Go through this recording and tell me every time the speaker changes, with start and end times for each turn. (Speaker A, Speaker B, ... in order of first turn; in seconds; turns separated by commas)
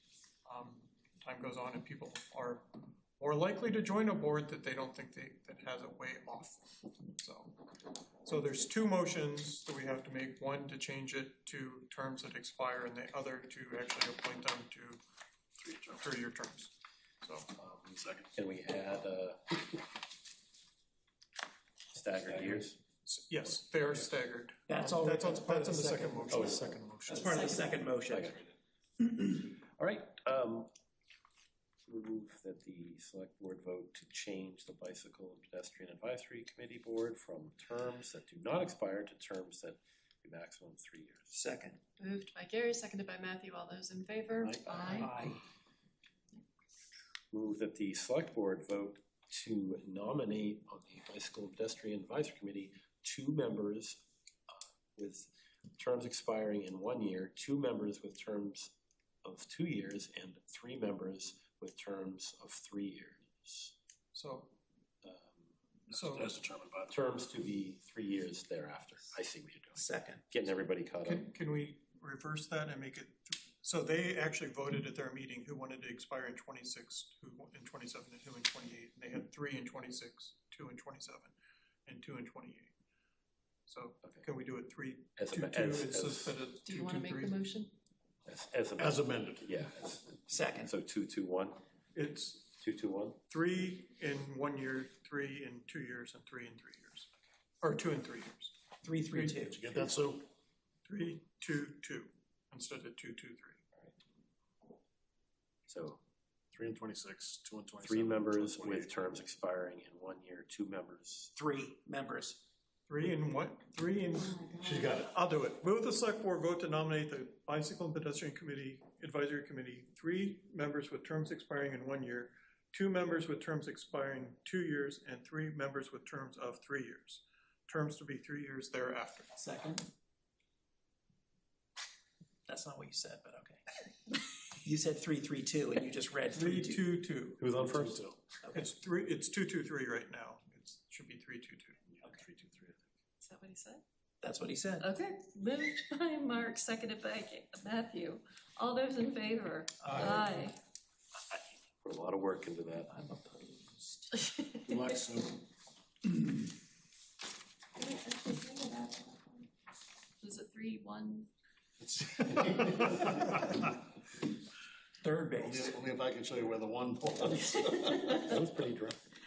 Speaker A: 0.5-7.7, Speaker A: 8.2-15.0, Speaker B: 15.6-16.0, Speaker A: 15.9-17.5, Speaker B: 17.7-18.3, Speaker C: 18.3-19.9, Speaker C: 21.9-22.8, Speaker A: 23.1-27.6, Speaker C: 23.4-24.0, Speaker D: 24.7-26.6, Speaker C: 26.3-26.8, Speaker D: 27.1-28.3, Speaker C: 28.1-28.4, Speaker C: 29.4-30.7, Speaker C: 31.9-41.3, Speaker D: 41.3-41.8, Speaker E: 42.0-45.1, Speaker C: 44.5-45.0, Speaker D: 44.9-45.4, Speaker C: 47.3-63.7, Speaker A: 64.1-64.6, Speaker C: 65.0-65.5, Speaker A: 65.9-66.4, Speaker B: 65.9-66.9, Speaker C: 66.9-71.3, Speaker D: 69.8-70.2, Speaker A: 71.0-81.3, Speaker A: 81.9-82.7, Speaker A: 83.7-87.4, Speaker C: 85.2-86.4, Speaker E: 86.6-87.7, Speaker C: 88.3-91.6, Speaker B: 88.8-89.5, Speaker D: 90.3-90.7, Speaker A: 91.9-92.6, Speaker C: 92.6-93.2, Speaker A: 93.3-97.1, Speaker A: 97.6-98.6, Speaker D: 98.8-99.9, Speaker A: 99.1-99.5, Speaker B: 99.5-100.3, Speaker A: 100.8-103.6, Speaker C: 105.7-106.0, Speaker B: 106.5-108.9, Speaker C: 107.8-111.3, Speaker D: 111.4-112.4, Speaker A: 112.9-129.3, Speaker E: 114.2-115.0, Speaker B: 114.6-115.1, Speaker D: 129.3-129.8, Speaker D: 132.5-133.6, Speaker D: 134.5-136.8, Speaker A: 136.3-137.4, Speaker C: 137.4-138.0, Speaker B: 137.6-138.2, Speaker D: 138.4-138.7, Speaker A: 138.5-141.8, Speaker B: 142.0-142.8, Speaker E: 143.2-143.8, Speaker D: 144.2-144.9, Speaker E: 144.8-150.6, Speaker A: 149.8-150.5, Speaker C: 151.8-152.9, Speaker D: 152.9-154.2, Speaker E: 154.2-154.9, Speaker B: 154.6-155.4, Speaker E: 157.8-159.5, Speaker E: 160.2-161.3, Speaker B: 161.8-163.7, Speaker D: 165.0-165.8, Speaker B: 165.4-168.1, Speaker E: 167.7-168.4, Speaker C: 168.1-169.0